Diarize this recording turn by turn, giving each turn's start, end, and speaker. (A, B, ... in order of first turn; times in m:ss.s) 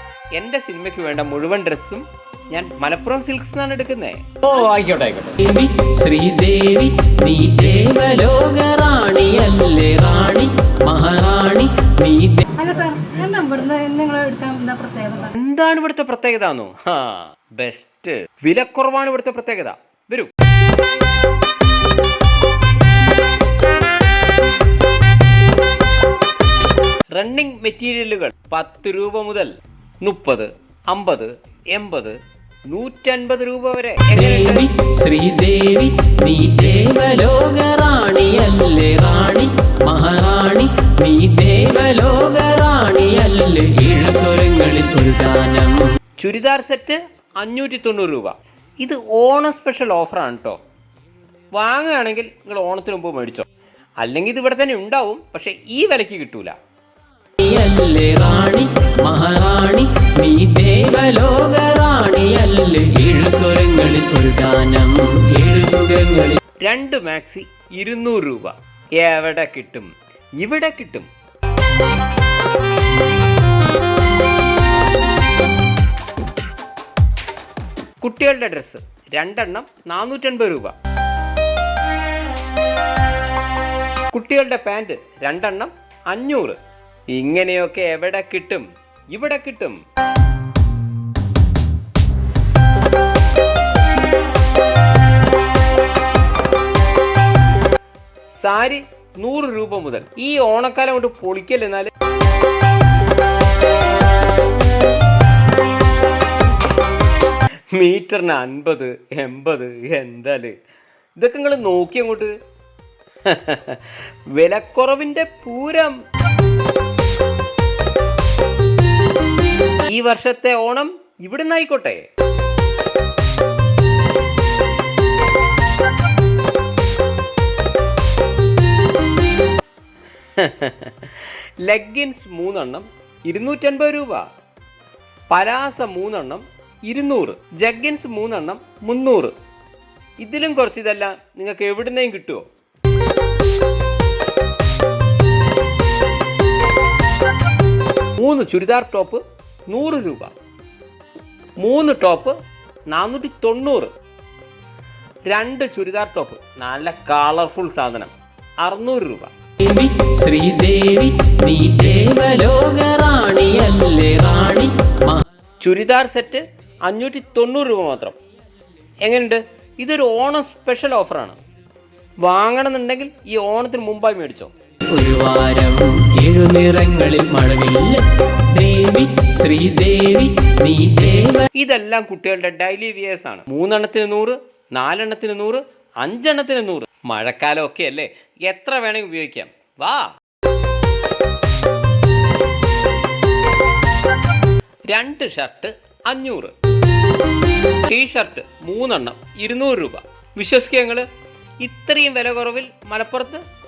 0:00.4-0:05.4 A
0:05.3-0:12.5 B
0:12.6-0:15.3 C
0:15.3-0:20.3 A
0:27.1-0:32.2 A
0:32.7-0:34.7 A
0:34.1-0:45.9 B
0:46.2-0:50.6 A
0:51.5-0:53.4 A
0:54.0-0:56.5 A
0:57.4-1:06.4 B
1:06.6-1:11.1 A
1:18.0-1:20.7 A
1:24.1-1:26.6 A
1:27.1-1:29.8 A
1:38.3-1:41.9 A
1:47.7-1:50.5 A
1:51.2-1:52.3 A
1:53.2-1:56.0 A
1:59.9-2:02.0 A
2:10.4-2:14.2 A
2:15.3-2:19.3 A
2:20.2-2:22.4 A
2:28.2-2:30.3 A
2:31.6-2:32.3 A
2:32.9-2:33.9 A
2:35.3-2:39.3 A
2:39.6-2:45.2 B
2:45.6-2:48.2 A
2:49.0-2:51.4 A
2:52.2-2:54.5 A
2:54.8-3:01.5 B
3:01.5-3:10.1 A
3:14.9-3:16.5 A
3:17.9-3:21.0 A
3:21.6-3:23.4 A